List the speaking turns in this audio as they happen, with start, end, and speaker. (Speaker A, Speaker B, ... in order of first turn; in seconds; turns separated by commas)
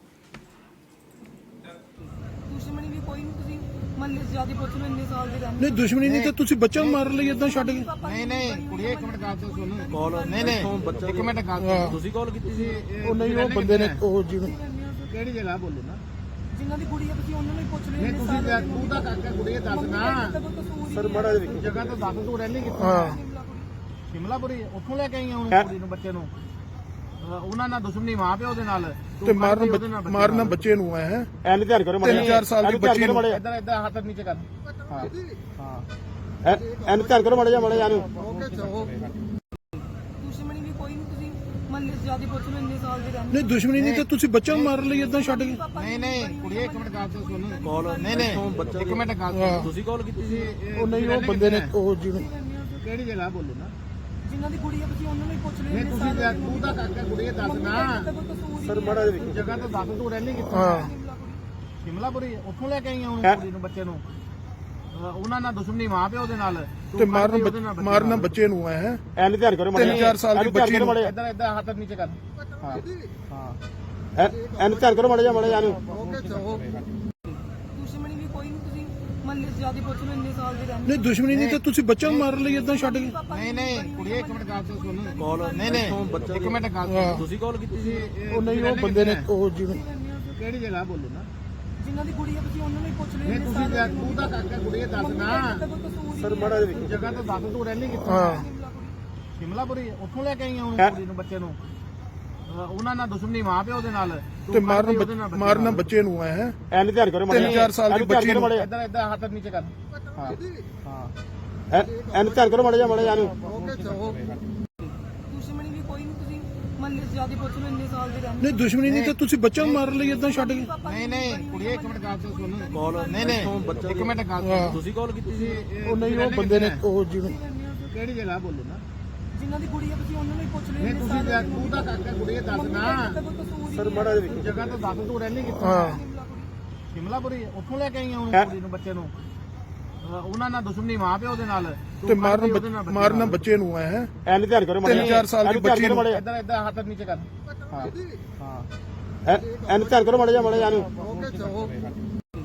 Speaker A: 2.5-5.5, Speaker B: 5.6-7.9, Speaker C: 6.0-7.2, Speaker C: 7.8-14.1, Speaker A: 8.2-8.5, Speaker A: 10.1-10.4, Speaker B: 11.6-12.0, Speaker B: 13.3-14.5, Speaker A: 14.5-14.9, Speaker C: 15.1-16.0, Speaker A: 16.6-18.7, Speaker C: 17.9-20.4, Speaker A: 20.3-21.4, Speaker C: 21.4-23.2, Speaker B: 22.8-23.2, Speaker C: 24.1-26.3, Speaker C: 27.2-30.6, Speaker B: 29.2-31.3, Speaker D: 31.4-33.4, Speaker B: 32.0-33.2, Speaker C: 32.0-32.4, Speaker C: 33.3-35.9, Speaker D: 36.4-38.1, Speaker C: 38.2-38.9, Speaker A: 40.2-43.3, Speaker B: 43.3-45.6, Speaker C: 43.8-45.0, Speaker A: 45.4-46.4, Speaker C: 45.7-51.8, Speaker B: 49.3-49.7, Speaker B: 51.0-52.3, Speaker A: 52.2-52.7, Speaker C: 52.8-53.7, Speaker A: 54.3-56.3, Speaker C: 55.7-58.1, Speaker A: 58.1-59.1, Speaker D: 58.7-59.2, Speaker C: 59.2-60.9, Speaker B: 60.5-60.9, Speaker A: 60.9-61.3, Speaker C: 61.8-64.0, Speaker C: 64.9-68.4, Speaker B: 67.0-69.0, Speaker D: 69.2-71.1, Speaker B: 69.7-71.0, Speaker C: 69.8-70.2, Speaker C: 71.0-73.6, Speaker D: 74.2-75.8, Speaker C: 75.5-76.7, Speaker A: 77.8-80.9, Speaker B: 80.8-83.2, Speaker C: 81.3-89.3, Speaker A: 82.8-84.1, Speaker A: 85.1-85.8, Speaker B: 86.8-87.2, Speaker B: 88.6-89.8, Speaker A: 89.6-90.2, Speaker C: 90.3-91.3, Speaker A: 91.8-94.0, Speaker C: 93.2-95.7, Speaker A: 95.6-96.7, Speaker C: 96.6-98.5, Speaker B: 98.1-98.5, Speaker A: 98.5-98.9, Speaker C: 99.4-101.6, Speaker C: 102.5-105.9, Speaker B: 104.5-106.6, Speaker D: 106.7-108.6, Speaker B: 107.3-108.5, Speaker C: 107.4-107.7, Speaker C: 108.5-111.1, Speaker D: 111.7-113.3, Speaker C: 113.4-114.1, Speaker A: 115.3-118.4, Speaker B: 118.4-120.7, Speaker C: 118.8-126.9, Speaker A: 120.7-121.3, Speaker B: 124.4-124.8, Speaker B: 126.1-127.3, Speaker A: 127.2-127.8, Speaker C: 127.9-128.8, Speaker A: 129.4-131.4, Speaker C: 130.8-133.2, Speaker A: 133.1-134.2, Speaker D: 133.8-134.4, Speaker C: 134.3-136.0, Speaker B: 135.6-135.9, Speaker A: 136.0-136.4, Speaker C: 136.9-139.1, Speaker C: 140.0-143.4, Speaker B: 142.1-144.1, Speaker D: 144.2-146.2, Speaker B: 144.8-146.0, Speaker C: 144.9-145.2, Speaker C: 146.1-148.7, Speaker D: 149.2-150.9, Speaker C: 150.5-151.8